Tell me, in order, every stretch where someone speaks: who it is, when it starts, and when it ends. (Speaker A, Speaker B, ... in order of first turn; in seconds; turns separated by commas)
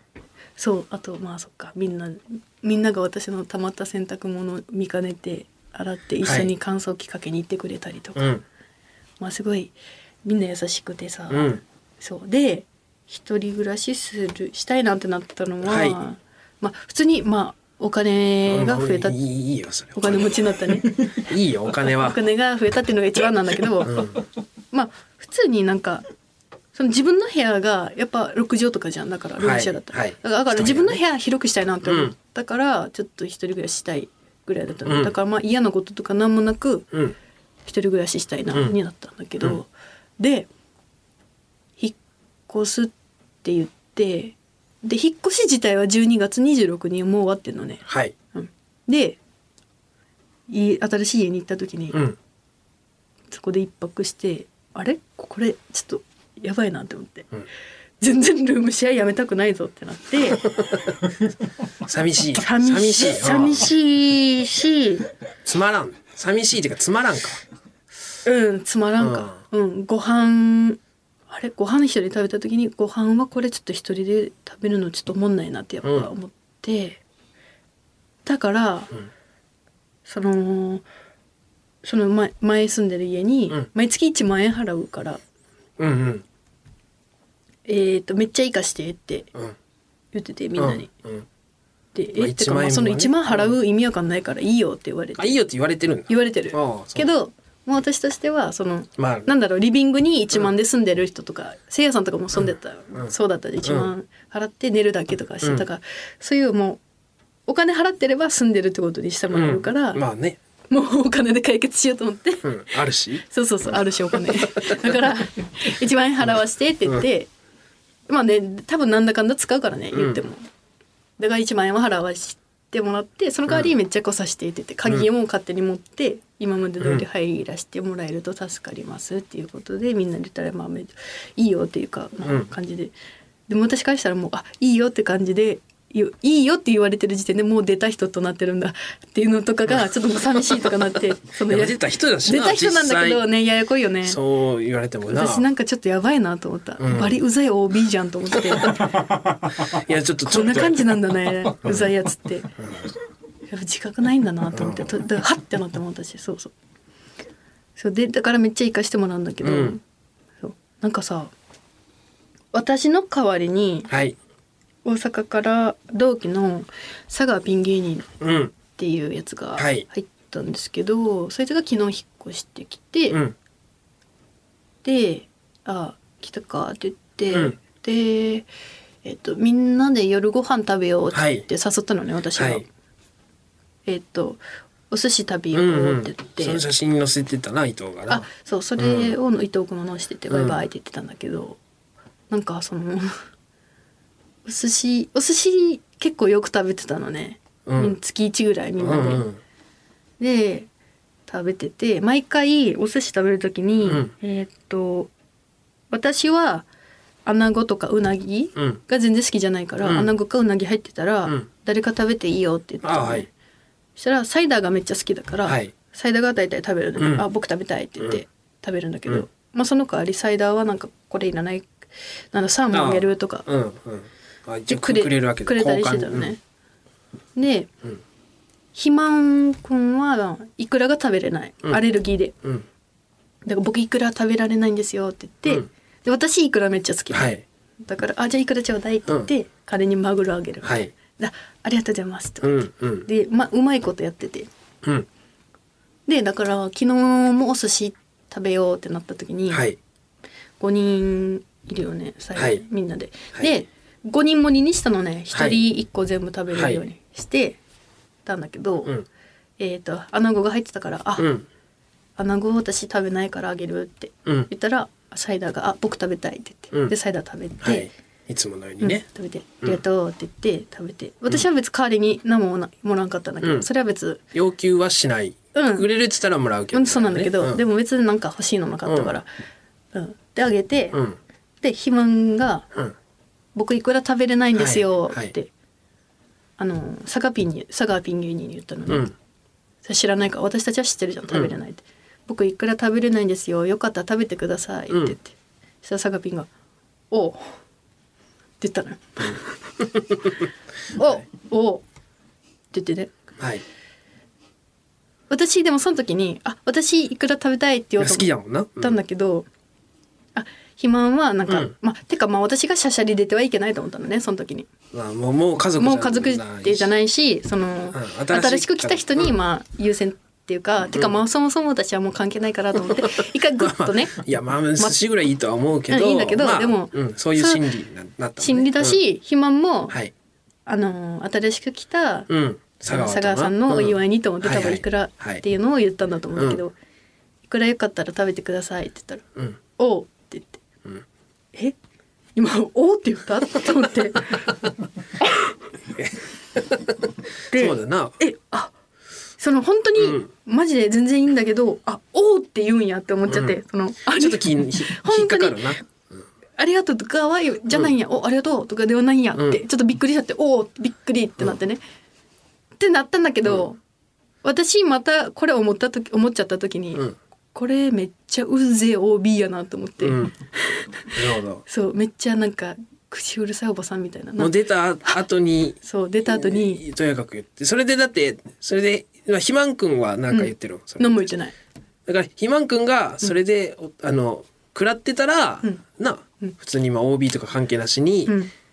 Speaker A: 0.6-8.3, Speaker B: 6.2-6.5, Speaker B: 8.2-8.4, Speaker A: 9.2-9.7, Speaker A: 10.2-19.2, Speaker B: 11.3-11.6, Speaker B: 15.6-16.0, Speaker B: 18.5-20.4, Speaker A: 19.9-21.2, Speaker B: 21.1-22.2, Speaker A: 22.0-24.2, Speaker B: 23.8-24.2, Speaker A: 24.7-26.1, Speaker A: 26.8-36.9, Speaker B: 29.4-31.0, Speaker B: 31.9-32.1, Speaker B: 34.9-35.1, Speaker A: 37.7-40.5, Speaker A: 42.5-42.9, Speaker A: 43.4-49.2, Speaker B: 47.9-48.1, Speaker A: 50.5-52.0, Speaker B: 51.9-52.2, Speaker A: 53.3-57.3, Speaker A: 58.0-60.5, Speaker B: 61.8-63.7, Speaker A: 62.4-65.1, Speaker B: 65.5-67.4, Speaker A: 68.2-77.0, Speaker B: 69.0-69.4, Speaker B: 75.8-76.1, Speaker A: 78.3-78.9, Speaker A: 80.1-80.8, Speaker A: 81.8-85.2, Speaker B: 85.8-86.2, Speaker A: 87.7-89.3, Speaker A: 90.1-90.9, Speaker B: 90.6-91.3, Speaker A: 92.0-95.4, Speaker B: 92.2-93.5, Speaker B: 95.2-97.1, Speaker A: 96.1-106.8, Speaker B: 99.0-99.3, Speaker B: 102.9-103.9, Speaker A: 107.5-110.0, Speaker B: 109.3-110.4, Speaker A: 110.7-112.5, Speaker B: 112.4-115.0, Speaker A: 113.3-117.3, Speaker A: 118.1-120.5, Speaker B: 119.9-120.2, Speaker A: 121.2-132.9, Speaker B: 126.8-127.0, Speaker B: 132.2-132.5, Speaker A: 133.5-144.2, Speaker B: 141.5-143.2, Speaker B: 144.0-145.5, Speaker A: 145.1-149.0, Speaker B: 146.8-147.2, Speaker B: 148.5-150.9, Speaker A: 150.3-152.6, Speaker B: 151.6-151.9, Speaker B: 152.6-152.9, Speaker A: 153.5-156.5, Speaker B: 154.5-154.9, Speaker A: 157.8-159.8, Speaker B: 159.4-159.8, Speaker A: 160.4-161.3, Speaker A: 162.5-163.9, Speaker B: 163.9-164.2, Speaker A: 164.8-168.1, Speaker B: 168.2-168.5, Speaker A: 168.8-173.2, Speaker B: 169.6-169.8, Speaker B: 173.1-173.4, Speaker A: 174.8-178.5, Speaker B: 177.3-177.6, Speaker A: 179.0-182.7, Speaker B: 181.1-181.4, Speaker B: 182.4-182.6, Speaker A: 183.9-186.6, Speaker B: 185.5-188.3, Speaker A: 188.1-191.6, Speaker B: 188.8-189.2, Speaker B: 190.3-190.6, Speaker A: 192.3-193.1, Speaker A: 194.4-199.3, Speaker B: 197.7-198.0, Speaker B: 198.8-199.4, Speaker A: 200.2-200.7, Speaker A: 201.3-205.1, Speaker B: 203.8-204.1, Speaker A: 205.9-206.7, Speaker A: 207.3-213.3, Speaker B: 209.8-210.1, Speaker B: 212.8-213.3, Speaker A: 214.0-221.7, Speaker B: 215.5-215.7, Speaker B: 217.0-217.2, Speaker A: 222.3-223.5, Speaker B: 222.7-226.3, Speaker A: 224.7-226.4, Speaker A: 227.4-227.7, Speaker A: 228.8-232.3, Speaker A: 233.4-237.3, Speaker B: 237.1-237.4, Speaker A: 237.8-244.5, Speaker B: 240.6-240.9, Speaker B: 242.4-243.1, Speaker A: 246.1-249.6, Speaker B: 249.5-249.8, Speaker A: 250.6-257.6, Speaker B: 252.4-252.6, Speaker B: 255.3-255.6, Speaker B: 256.5-256.8, Speaker A: 258.3-258.9, Speaker A: 259.6-261.3, Speaker B: 261.2-261.5, Speaker A: 262.2-267.9, Speaker B: 267.6-269.1, Speaker A: 268.8-274.2, Speaker B: 274.3-277.6, Speaker A: 275.6-275.9, Speaker A: 276.7-279.3, Speaker B: 278.9-279.1, Speaker A: 279.9-281.0, Speaker B: 280.9-281.2, Speaker A: 281.6-282.7, Speaker A: 283.6-285.5, Speaker B: 284.6-285.3, Speaker A: 286.6-289.1, Speaker B: 288.9-289.1, Speaker A: 289.8-296.5, Speaker B: 294.9-295.2, Speaker A: 297.1-297.6, Speaker A: 298.6-299.4, Speaker B: 299.9-300.3, Speaker A: 300.9-301.8, Speaker A: 302.7-303.1, Speaker B: 303.4-303.6, Speaker A: 305.3-309.5, Speaker B: 308.0-309.0, Speaker A: 310.4-314.7, Speaker B: 311.5-311.7, Speaker B: 314.9-316.9, Speaker A: 315.8-324.2, Speaker B: 317.9-319.3, Speaker B: 323.6-329.0, Speaker A: 325.9-327.6, Speaker A: 328.4-329.9, Speaker A: 330.7-332.3, Speaker B: 332.3-335.4, Speaker A: 332.9-336.8, Speaker B: 336.4-336.6, Speaker A: 337.5-339.2, Speaker A: 339.8-340.6, Speaker A: 342.4-344.5, Speaker A: 347.5-348.7, Speaker B: 347.5-348.2, Speaker A: 349.4-355.8, Speaker B: 350.0-350.3, Speaker B: 353.3-353.6, Speaker B: 354.1-356.2, Speaker A: 356.6-361.8, Speaker B: 359.4-359.6, Speaker A: 362.8-363.8, Speaker A: 364.4-371.1, Speaker B: 370.0-370.3, Speaker B: 371.1-371.6, Speaker A: 371.7-374.5, Speaker B: 374.4-381.3, Speaker A: 375.8-376.8, Speaker A: 380.3-381.5, Speaker B: 382.1-388.4